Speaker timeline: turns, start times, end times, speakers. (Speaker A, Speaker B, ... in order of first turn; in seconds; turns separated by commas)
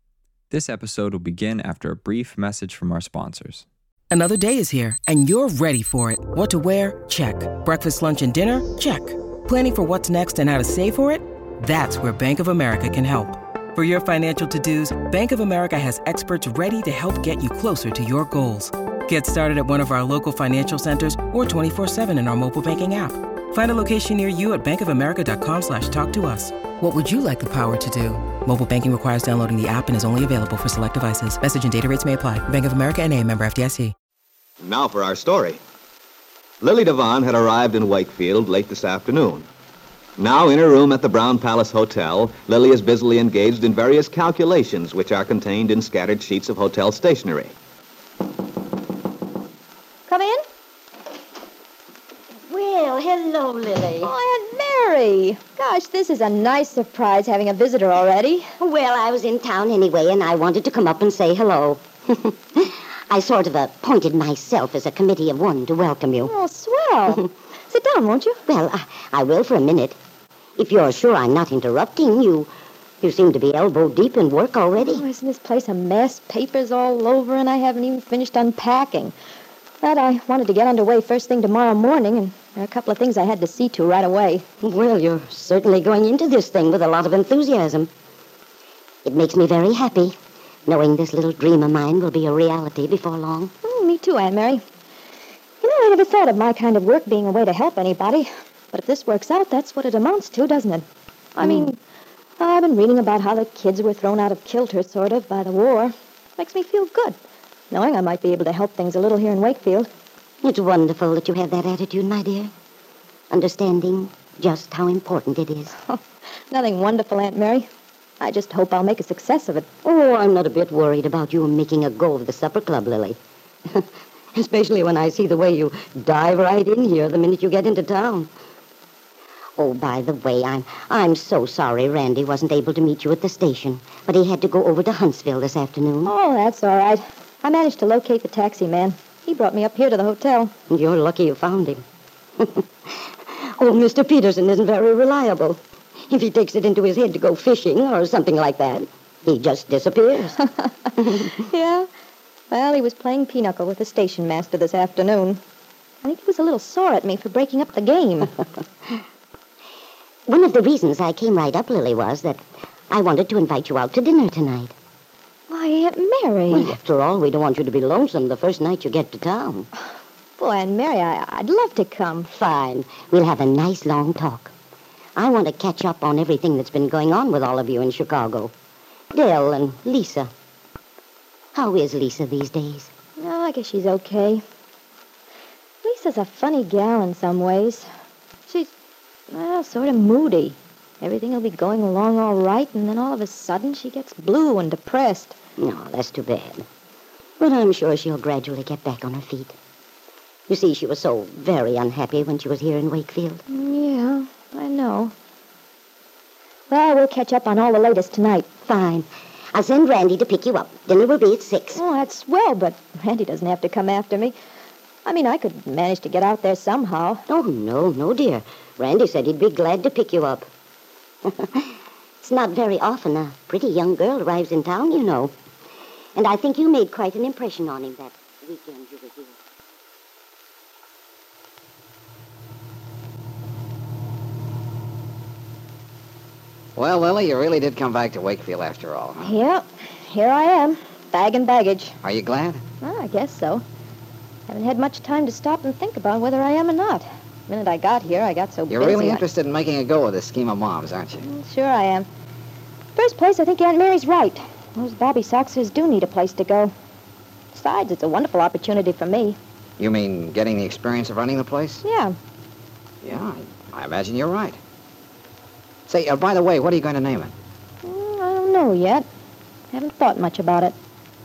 Speaker A: 0.5-3.7, Speaker B: 4.1-33.9, Speaker C: 34.6-35.6, Speaker C: 36.6-39.5, Speaker C: 40.2-47.5, Speaker D: 50.1-50.4, Speaker E: 52.5-54.1, Speaker D: 54.0-58.5, Speaker E: 58.6-66.3, Speaker D: 66.2-68.4, Speaker E: 68.5-70.0, Speaker E: 70.6-72.5, Speaker E: 73.0-75.0, Speaker D: 74.8-79.1, Speaker D: 79.8-84.5, Speaker E: 84.6-87.9, Speaker E: 89.0-90.2, Speaker E: 90.7-93.5, Speaker D: 93.6-94.6, Speaker D: 95.6-100.8, Speaker D: 101.4-101.8, Speaker E: 101.4-101.7, Speaker D: 102.4-107.2, Speaker D: 107.7-109.9, Speaker E: 110.4-112.5, Speaker E: 113.3-115.7, Speaker D: 115.8-117.7, Speaker D: 118.2-119.7, Speaker E: 119.8-123.2, Speaker E: 123.7-128.3, Speaker E: 129.6-136.1, Speaker D: 136.1-140.5, Speaker E: 140.7-141.8, Speaker E: 143.3-150.5, Speaker E: 151.0-151.3, Speaker D: 151.4-151.9, Speaker D: 152.5-155.4, Speaker D: 156.0-158.3, Speaker E: 160.3-164.7, Speaker D: 165.5-166.8, Speaker E: 166.5-169.7, Speaker D: 170.4-172.3, Speaker E: 172.3-174.5, Speaker E: 175.2-178.5, Speaker E: 179.1-180.3, Speaker E: 181.6-182.9, Speaker D: 183.2-184.4, Speaker D: 185.8-187.9, Speaker D: 189.3-195.4, Speaker E: 195.6-196.7, Speaker E: 197.4-199.6, Speaker E: 200.5-203.4, Speaker D: 203.5-205.1, Speaker D: 206.7-208.5, Speaker E: 208.7-211.8, Speaker D: 211.7-214.3, Speaker D: 215.1-217.2, Speaker E: 217.3-220.5, Speaker E: 221.3-221.7, Speaker E: 222.2-225.3, Speaker E: 226.2-229.3, Speaker F: 236.8-239.4, Speaker D: 239.2-241.9, Speaker F: 242.0-242.6, Speaker D: 242.8-243.6, Speaker D: 244.5-249.2, Speaker F: 248.7-251.3, Speaker D: 251.2-252.1, Speaker D: 253.0-256.7, Speaker D: 257.5-259.4, Speaker F: 259.8-261.8, Speaker D: 261.8-262.1, Speaker F: 263.0-264.6, Speaker F: 265.9-267.3, Speaker D: 267.8-269.1, Speaker D: 269.7-270.8